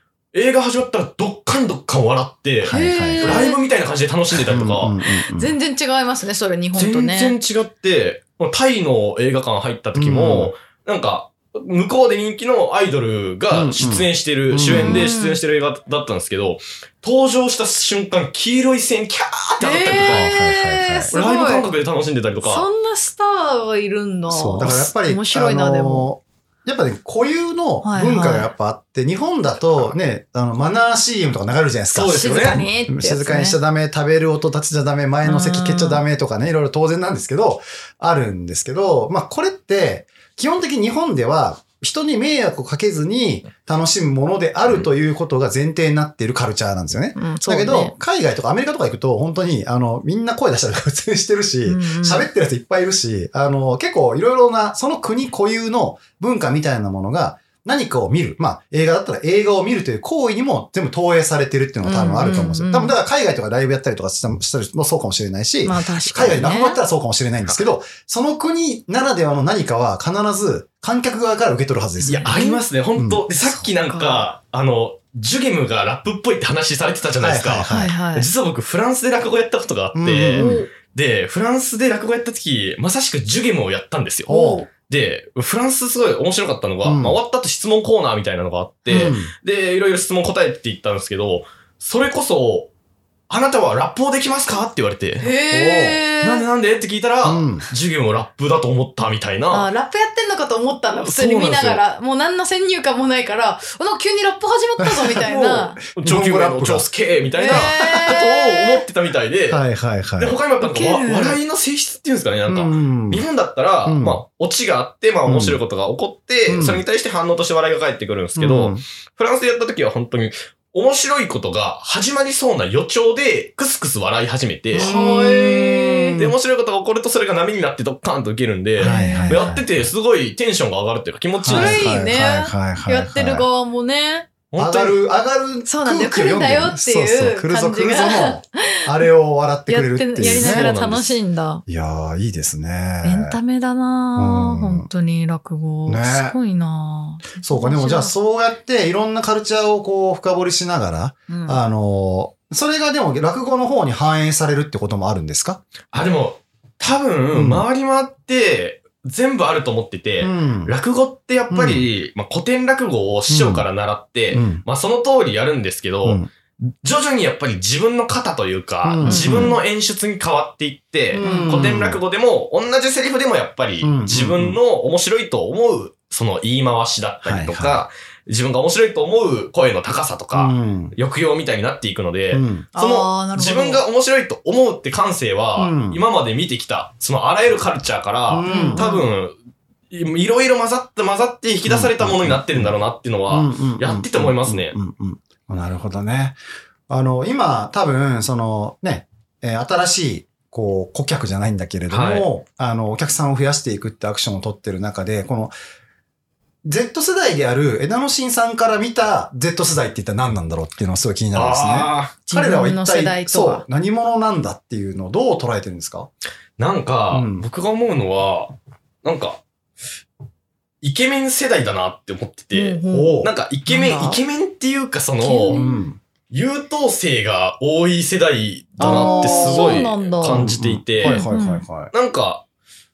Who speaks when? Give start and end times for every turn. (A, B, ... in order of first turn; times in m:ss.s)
0:00.3-0:05.0 A
0:02.6-0:03.5 B
0:02.7-0:03.6 C
0:04.3-0:05.5 B
0:05.4-0:07.4 C
0:06.7-0:20.3 A
0:10.0-0:10.5 B
0:13.5-0:15.1 B
0:14.7-0:15.4 C
0:19.6-0:21.7 C
0:20.0-0:21.1 B
0:21.1-0:22.7 A
0:22.4-0:26.1 C
0:24.3-1:12.4 B
0:27.8-0:28.5 C
0:29.6-0:29.9 A
0:31.9-0:32.6 A
0:32.0-0:33.6 C
0:35.2-0:36.0 C
0:47.2-0:47.9 C
0:51.7-0:52.3 C
1:01.8-1:02.9 C
1:05.6-1:06.8 C
1:12.0-1:12.6 C
1:12.1-1:32.7 A
1:13.0-1:13.2 B
1:13.4-1:14.3 C
1:17.2-1:18.0 B
1:17.7-1:18.3 C
1:20.0-1:20.6 B
1:20.4-1:20.7 C
1:24.3-1:24.6 B
1:24.3-1:24.7 C
1:26.8-1:27.2 B
1:28.9-1:29.3 B
1:33.3-1:35.3 A
1:35.2-1:36.4 C
1:35.5-1:36.0 B
1:36.2-1:39.7 A
1:37.2-1:37.7 B
1:39.5-1:45.8 C
1:41.0-1:41.8 A
1:44.8-1:45.3 B
1:45.2-1:49.6 A
1:45.8-1:46.9 B
1:47.4-1:48.8 C
1:47.5-1:48.2 B
1:49.5-1:50.4 B
1:50.2-2:05.0 A
1:50.6-1:51.4 C
1:52.5-1:53.2 B
1:53.9-1:54.2 B
1:55.2-1:55.6 B
1:56.5-1:56.8 B
1:58.4-1:58.8 B
2:04.7-2:06.4 B
2:04.8-2:06.2 C
2:06.1-2:12.0 A
2:08.8-2:09.5 C
2:08.8-2:09.9 B
2:11.4-2:13.5 B
2:11.5-2:14.3 C
2:14.5-2:15.0 A
2:14.6-2:20.7 B
2:15.7-2:18.8 C
2:19.7-2:21.6 C
2:20.2-2:21.2 A
2:21.7-2:23.4 B
2:23.0-2:28.1 C
2:24.2-2:24.9 B
2:25.9-2:26.4 B
2:27.4-2:35.6 B
2:31.3-2:31.6 C
2:35.9-2:46.3 A
2:37.3-2:37.6 B
2:40.2-2:40.7 B
2:41.5-2:41.9 B
2:43.3-2:43.7 B
2:44.3-2:44.6 B
2:46.8-3:09.3 A
2:48.8-2:49.6 B
2:49.0-2:49.6 C
2:51.1-2:52.0 B
2:51.2-2:51.6 C
2:53.8-2:54.6 B
2:57.2-2:57.8 B
3:00.3-3:01.0 B
3:02.3-3:02.7 B
3:02.8-3:03.8 C
3:05.6-3:06.0 B
3:08.3-3:08.8 B
3:08.5-3:09.1 C
3:09.9-3:14.8 A
3:11.7-3:12.8 B
3:13.3-3:16.4 B
3:16.9-3:25.5 B
3:21.9-3:22.3 A
3:26.6-3:36.1 B
3:31.3-3:32.2 A
3:32.3-3:33.6 C
3:36.6-3:39.4 A
3:37.1-3:37.4 B
3:40.8-3:45.6 A
3:42.5-3:44.2 C
3:42.9-3:43.3 B
3:45.2-3:45.8 C
3:45.5-3:46.0 B
3:46.3-3:51.2 A
3:48.8-3:51.9 B
3:48.8-3:51.6 C
3:51.9-3:52.4 A